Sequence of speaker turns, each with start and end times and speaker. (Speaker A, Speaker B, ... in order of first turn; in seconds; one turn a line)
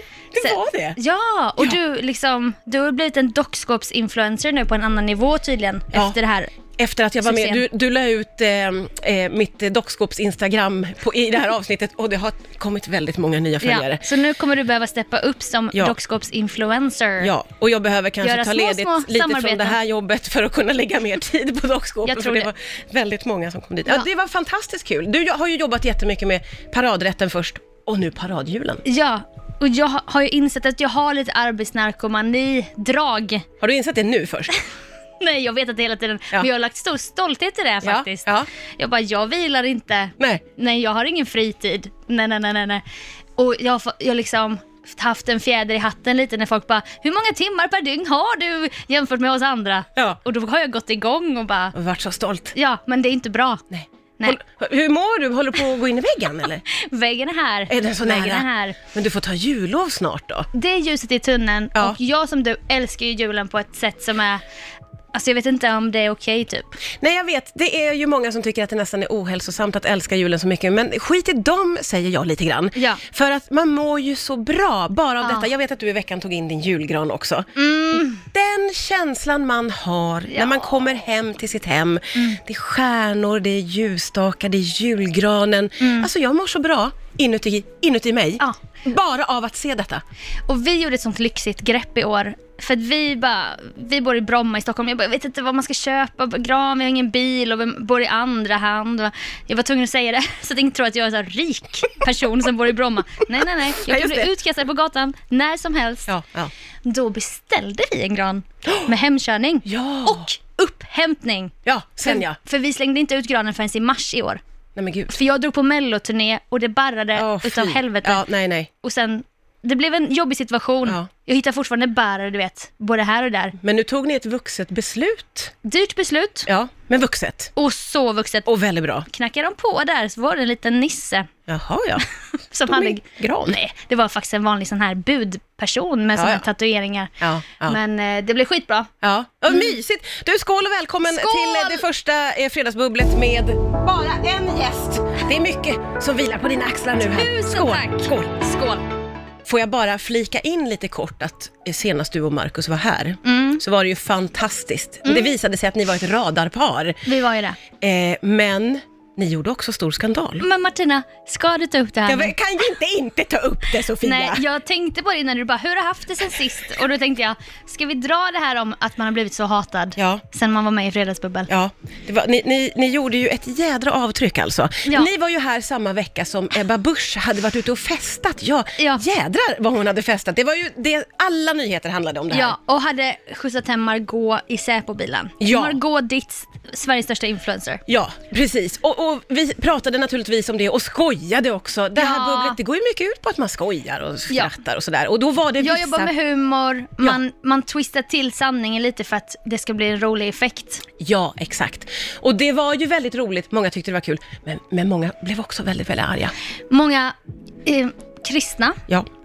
Speaker A: 0.3-1.0
Speaker B: 0.4-6.5
Speaker A: 6.8-14.1
Speaker B: 7.2-7.6
Speaker B: 13.6-17.3
Speaker A: 17.2-28.8
Speaker B: 18.2-19.8
Speaker B: 22.0-22.5
Speaker B: 28.8-33.5
Speaker A: 33.6-34.5
Speaker B: 35.2-42.8
Speaker A: 37.8-38.5
Speaker B: 43.4-51.7
Speaker A: 51.7-52.5
Speaker B: 52.5-53.6
Speaker A: 53.7-56.6
Speaker B: 56.7-58.8
Speaker A: 57.7-60.5
Speaker B: 60.5-64.4
Speaker B: 65.1-66.8
Speaker A: 67.0-90.0
Speaker B: 72.8-73.0
Speaker B: 75.2-75.5
Speaker B: 77.5-78.2
Speaker B: 80.3-80.7
Speaker B: 85.8-86.1
Speaker B: 90.5-106.1
Speaker A: 103.8-104.3
Speaker A: 106.1-106.5
Speaker B: 106.8-111.5
Speaker A: 108.6-108.9
Speaker A: 109.7-110.2
Speaker A: 111.6-112.4
Speaker B: 112.0-114.4
Speaker A: 114.8-115.1
Speaker B: 115.1-118.2
Speaker A: 117.1-118.7
Speaker B: 118.8-123.5
Speaker A: 123.6-125.5
Speaker B: 125.6-126.5
Speaker A: 126.5-127.5
Speaker B: 127.5-128.5
Speaker A: 128.4-129.1
Speaker B: 129.1-131.3
Speaker A: 131.5-132.1
Speaker B: 132.5-138.9
Speaker A: 132.7-133.6
Speaker A: 136.2-136.4
Speaker A: 137.2-137.8
Speaker A: 139.0-148.4
Speaker B: 141.1-141.9
Speaker B: 147.0-148.8
Speaker A: 149.4-157.0
Speaker B: 153.2-153.6
Speaker B: 155.1-155.3
Speaker B: 157.1-157.6
Speaker A: 157.8-160.4
Speaker B: 160.4-162.3
Speaker A: 162.0-164.4
Speaker B: 164.0-171.5
Speaker A: 170.0-170.2
Speaker A: 171.5-182.6
Speaker B: 182.3-187.8
Speaker A: 185.4-185.8
Speaker A: 187.9-196.1
Speaker B: 191.9-192.6
Speaker B: 195.6-200.8
Speaker A: 201.0-206.3
Speaker B: 206.7-208.8